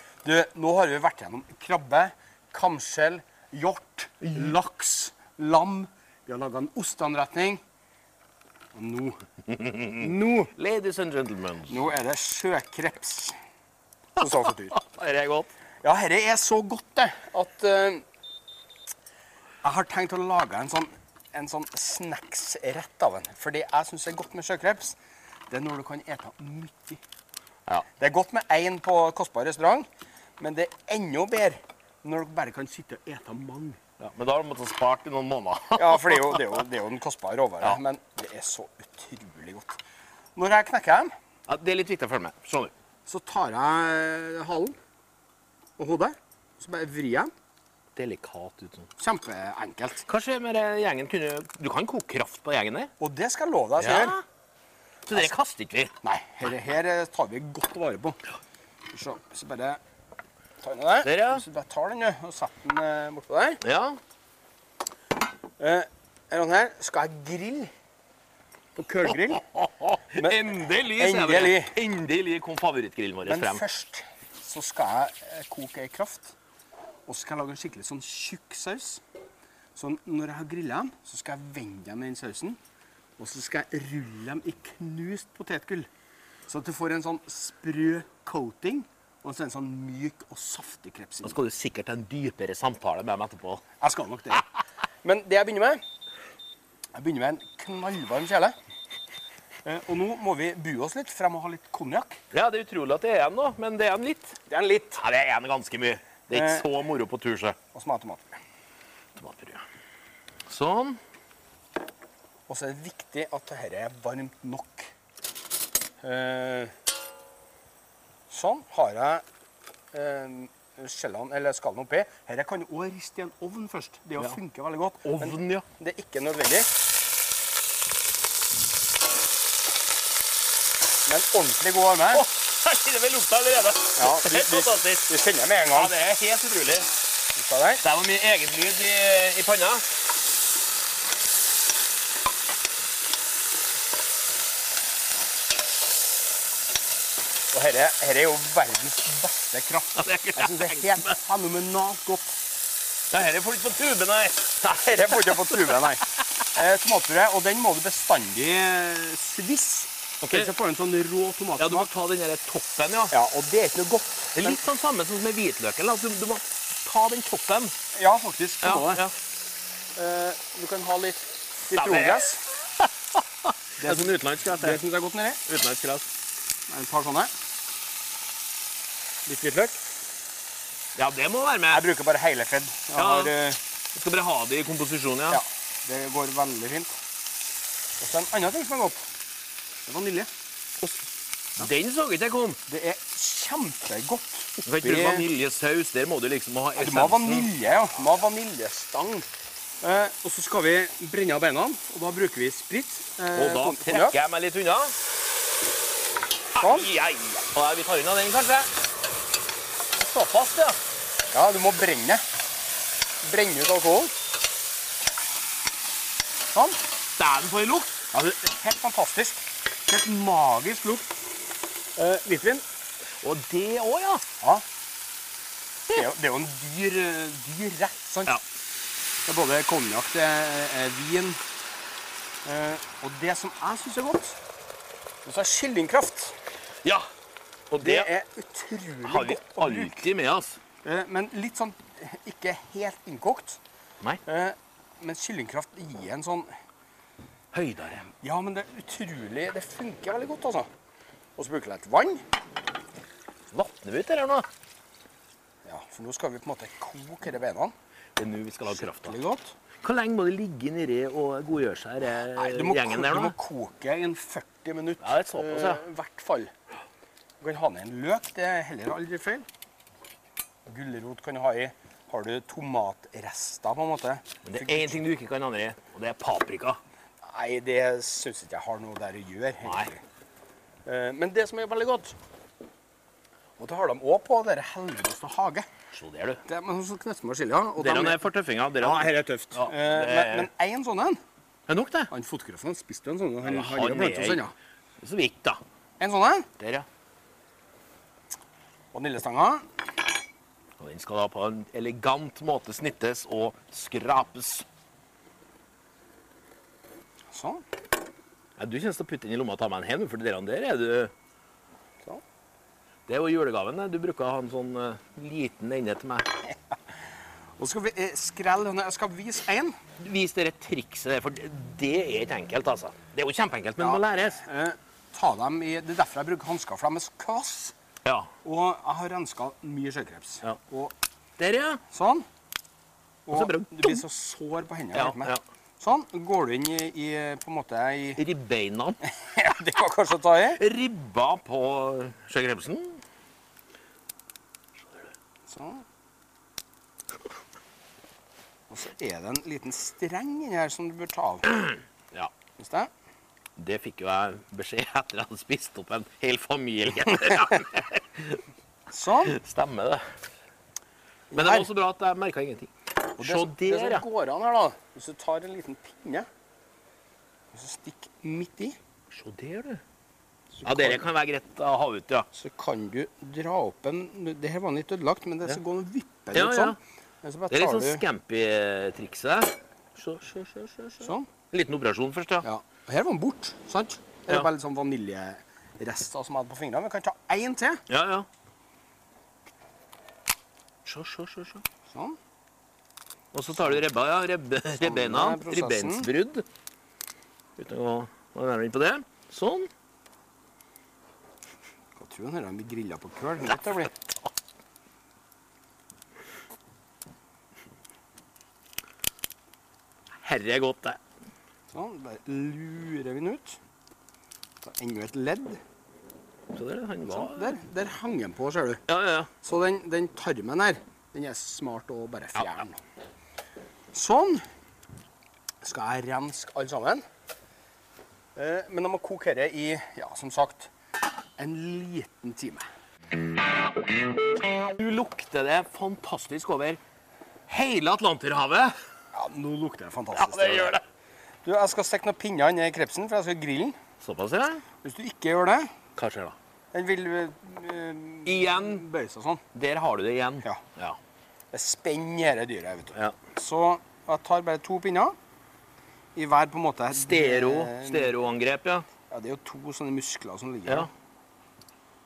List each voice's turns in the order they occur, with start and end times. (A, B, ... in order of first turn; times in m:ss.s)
0:00.2-0:07.6 A
0:08.7-0:09.2 A
0:09.5-0:11.8 B
0:09.9-0:10.5 A
0:11.7-0:13.4 A
0:14.2-0:14.8 A
0:14.7-0:15.5 B
0:15.8-0:18.0 A
0:19.6-0:25.0 A
0:25.5-0:27.0 A
0:28.0-0:29.9 A
0:30.4-0:33.8 A
0:34.0-0:36.6 B
0:35.8-0:39.8 A
0:40.4-0:41.1 A
0:41.5-0:42.7 B
0:43.1-0:44.8 A
0:45.8-0:47.3 A
0:48.0-0:48.9 B
0:49.0-0:50.1 A
0:50.1-0:52.9 B
0:53.0-0:54.2 A
0:53.8-0:54.2 B
0:55.1-0:55.9 B
0:56.0-0:58.2 A
0:58.9-0:59.8 A
1:00.6-1:03.6 A
1:01.0-1:01.4 B
1:03.6-1:04.0 B
1:05.6-1:07.7 A
1:08.8-1:09.4 A
1:09.2-1:13.6 B
1:10.2-1:11.8 A
1:13.2-1:16.3 A
1:17.1-1:19.0 A
1:19.8-1:22.6 A
1:23.2-1:25.9 A
1:26.5-1:31.4 A
1:31.2-1:33.6 B
1:33.8-1:34.5 A
1:35.0-1:35.8 A
1:36.9-1:38.5 A
1:39.6-1:42.2 A
1:42.3-1:44.4 B
1:44.5-1:45.0 A
1:45.0-1:47.6 B
1:46.3-1:46.7 A
1:47.7-1:48.4 A
1:49.2-1:49.6 B
1:50.5-1:51.0 B
1:52.5-1:54.9 A
1:56.0-1:56.7 A
1:58.3-1:59.2 A
1:59.9-2:06.7 A
2:05.0-2:05.7 B
2:11.1-2:12.3 A
2:12.1-2:15.1 B
2:14.0-2:16.0 A
2:15.7-2:16.9 B
2:17.4-2:17.8 A
2:17.8-2:19.8 B
2:27.5-2:32.4 A
2:30.0-2:31.1 B
2:33.1-2:35.8 B
2:34.6-2:41.9 A
2:40.2-2:40.5 B
2:41.6-2:43.1 B
2:43.1-2:44.6 A
2:44.4-2:47.7 B
2:47.9-2:49.0 A
2:48.6-2:49.2 B
2:50.0-2:52.4 A
2:51.7-2:52.3 B
2:53.4-2:54.8 B
2:53.8-2:55.4 A
2:55.5-2:56.1 B
2:56.7-2:57.3 A
2:59.3-2:59.8 A
3:01.0-3:01.9 B
3:01.7-3:03.6 A
3:03.0-3:03.3 B
3:04.0-3:05.4 B
3:05.3-3:07.0 A
3:08.0-3:09.1 A
3:09.9-3:10.3 A
3:11.6-3:12.6 B
3:12.7-3:15.3 A
3:14.6-3:17.5 B
3:16.8-3:19.3 A
3:19.8-3:24.2 A
3:23.4-3:24.9 B
3:26.6-3:28.7 B
3:26.6-3:26.9 A
3:30.0-3:30.8 B
3:31.3-3:32.2 A
3:33.2-3:34.1 A
3:36.5-3:36.8 A
3:37.2-3:38.4 B
3:38.2-3:41.2 A
3:42.0-3:42.6 A
3:43.2-3:44.2 B
3:45.9-3:48.4 A
3:49.3-3:51.4 A
3:52.4-3:54.4 A
3:55.2-3:56.4 A
3:57.7-3:58.1 B
3:57.8-4:00.1 A
3:59.0-4:00.6 B
4:00.8-4:03.6 A
4:04.2-4:06.5 A
4:07.5-4:08.1 B
4:08.1-4:10.7 A
4:11.4-4:12.2 A
4:13.5-4:14.5 B
4:15.6-4:17.7 A
4:18.2-4:19.2 B
4:18.6-4:19.6 A
4:19.8-4:23.4 B
4:22.2-4:26.5 A
4:25.0-4:25.8 B
4:27.4-4:29.5 A
4:30.7-4:35.0 A
4:34.4-4:36.8 B
4:37.2-4:40.0 A
4:39.6-4:39.9 B
4:40.9-4:42.2 A
4:43.6-4:45.7 A
4:45.9-4:46.4 B
4:46.5-4:48.3 A
4:47.8-4:50.5 B
4:48.8-4:51.2 A
4:51.7-4:52.1 B
4:52.1-4:54.5 A
4:53.4-4:54.4 B
4:55.0-4:55.6 B
4:56.0-4:56.5 A
4:56.6-4:56.9 B
4:58.9-4:59.6 A
5:00.8-5:04.7 B
5:07.3-5:07.6 A
5:08.6-5:11.1 B
5:13.1-5:16.3 B
5:17.6-5:19.8 A
5:20.0-5:24.4 B
5:23.8-5:27.7 A
5:28.0-5:28.3 B
5:28.4-5:30.9 A
5:31.4-5:31.8 B
5:31.9-5:32.3 A
5:33.3-5:38.2 A
5:33.3-5:34.0 B
5:34.9-5:35.4 B
5:38.2-5:39.0 B
5:39.1-5:40.6 A
5:40.6-5:43.0 B
5:45.5-5:45.8 A
5:48.7-5:51.6 A
5:51.5-5:52.3 B
5:52.6-5:52.9 A
5:53.6-5:58.4 B
5:58.9-5:59.4 A
5:59.2-6:00.0 B
6:01.3-6:01.7 A
6:01.3-6:04.0 B
6:03.2-6:06.3 A
6:07.5-6:08.8 A
6:09.1-6:09.8 B
6:10.6-6:11.1 A
6:10.6-6:12.3 B
6:12.3-6:18.0 A
6:16.3-6:16.8 B
6:17.5-6:22.5 B
6:21.0-6:21.3 A
6:22.4-6:27.8 A
6:27.9-6:28.3 B
6:30.8-6:31.6 B
6:31.9-6:32.2 A
6:33.3-6:36.5 B
6:34.8-6:36.1 A
6:37.6-6:39.7 B
6:42.0-6:43.9 A
6:50.2-6:51.0 B
6:51.7-6:53.6 A
6:54.6-6:55.6 A
6:56.5-6:57.6 B
6:57.1-6:58.8 A
6:58.9-6:59.3 B
6:59.4-7:02.8 A
7:03.9-7:04.4 A
7:05.6-7:07.0 A
7:08.4-7:10.7 A
7:11.4-7:12.7 A
7:14.5-7:16.8 B
7:17.5-7:18.8 B
7:19.1-7:20.8 A
7:20.1-7:20.8 B
7:21.4-7:23.8 A
7:24.0-7:24.6 B
7:24.8-7:25.7 A
7:26.0-7:26.4 B
7:26.7-7:29.4 A
7:28.3-7:28.8 B
7:29.5-7:31.0 B
7:31.5-7:35.2 A
7:36.2-7:38.2 A
7:36.9-7:38.9 B
7:39.1-7:40.9 A